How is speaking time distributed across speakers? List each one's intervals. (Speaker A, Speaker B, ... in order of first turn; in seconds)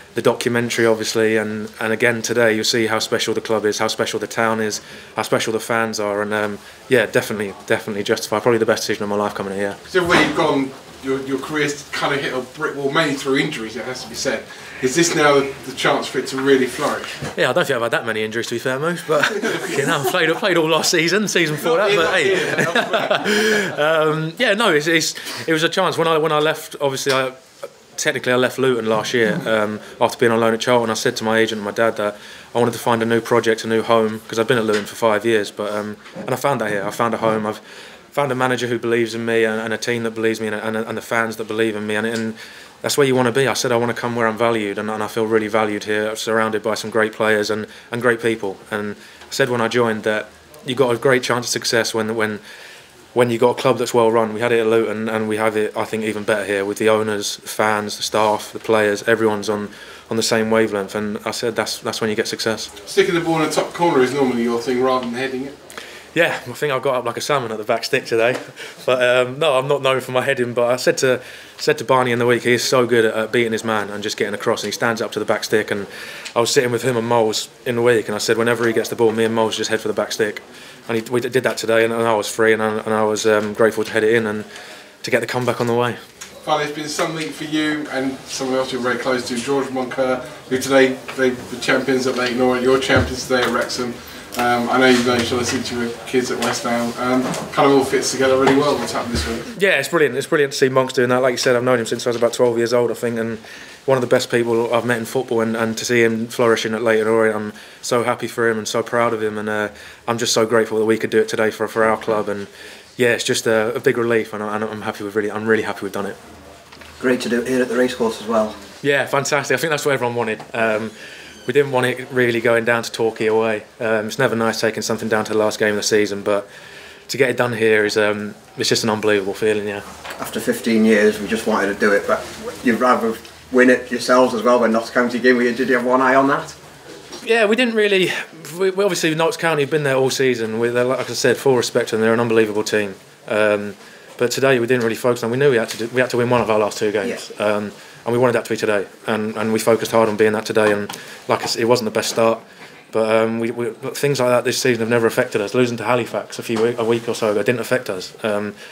Speaker A: 0.1-9.8, 17.4-27.4, 27.9-37.6, 38.1-52.4, 53.1-62.7, 66.1-84.5, 85.0-86.0, 99.5-116.2, 118.8-120.9, 121.5-126.5, 127.1-129.8, 137.2-158.6
Speaker B: 9.9-17.2, 21.6-23.4, 62.9-65.5, 86.4-99.4
Speaker C: 117.0-118.5, 130.2-136.5